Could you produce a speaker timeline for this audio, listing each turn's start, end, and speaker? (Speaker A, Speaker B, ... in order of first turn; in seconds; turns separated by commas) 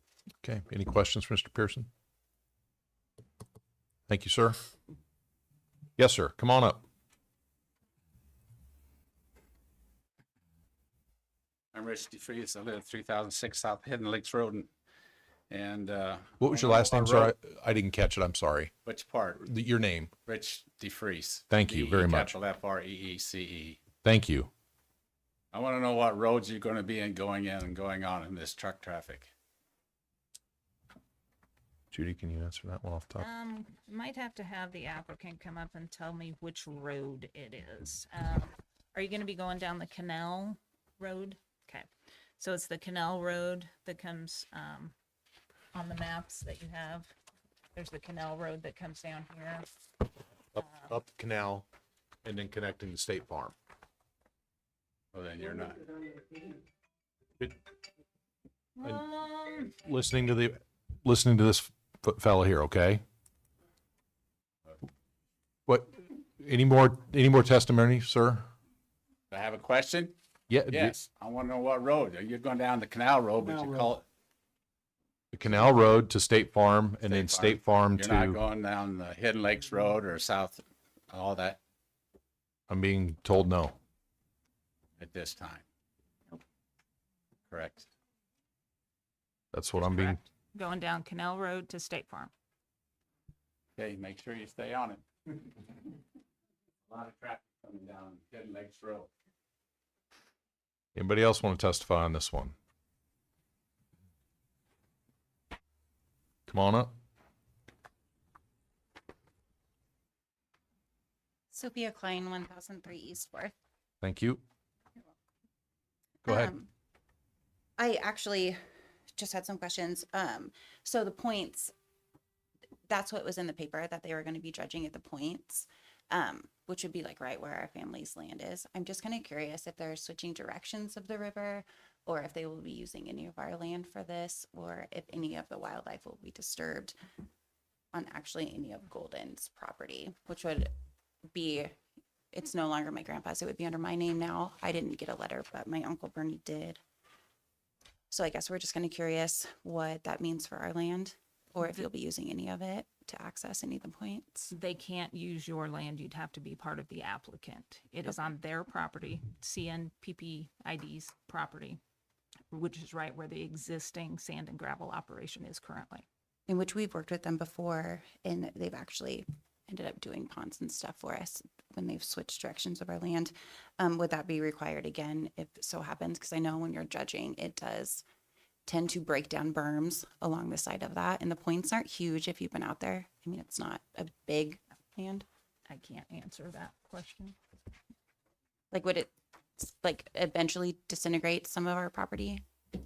Speaker A: 0.4-1.9, Speaker A: 4.1-4.6, Speaker A: 6.0-6.8, Speaker B: 11.7-14.7, Speaker B: 15.5-17.3, Speaker A: 16.4-18.7, Speaker B: 18.8-19.4, Speaker A: 19.4-20.1, Speaker B: 20.2-23.8, Speaker A: 21.5-22.3, Speaker A: 24.0-24.5, Speaker B: 25.5-29.3, Speaker A: 31.9-33.2, Speaker C: 33.2-41.9, Speaker C: 42.4-44.9, Speaker C: 45.7-47.1, Speaker C: 47.7-49.7, Speaker A: 50.5-51.6, Speaker C: 50.6-50.9, Speaker A: 52.2-53.5, Speaker B: 55.1-56.0, Speaker C: 58.8-59.7, Speaker A: 59.7-63.0, Speaker A: 65.7-68.5, Speaker B: 69.3-70.2, Speaker A: 70.5-71.0, Speaker B: 70.7-74.0, Speaker A: 75.3-78.4, Speaker B: 77.0-81.6, Speaker A: 82.7-83.8, Speaker B: 85.0-85.6, Speaker B: 87.5-87.9, Speaker A: 89.5-90.2, Speaker C: 89.8-92.3, Speaker B: 93.8-95.0, Speaker B: 96.9-99.1, Speaker A: 100.9-102.5, Speaker A: 106.5-106.9, Speaker D: 111.5-113.5, Speaker A: 114.0-114.4, Speaker A: 116.2-116.5, Speaker D: 116.2-116.7, Speaker D: 117.8-118.6, Speaker D: 119.1-121.7, Speaker D: 122.9-136.9, Speaker D: 137.9-140.7, Speaker D: 141.3-141.7, Speaker D: 142.3-146.8, Speaker D: 148.1-154.5, Speaker C: 154.5-161.8, Speaker C: 162.5-166.0, Speaker D: 166.5-178.0, Speaker D: 178.7-185.2, Speaker C: 185.7-187.3, Speaker D: 188.7-192.4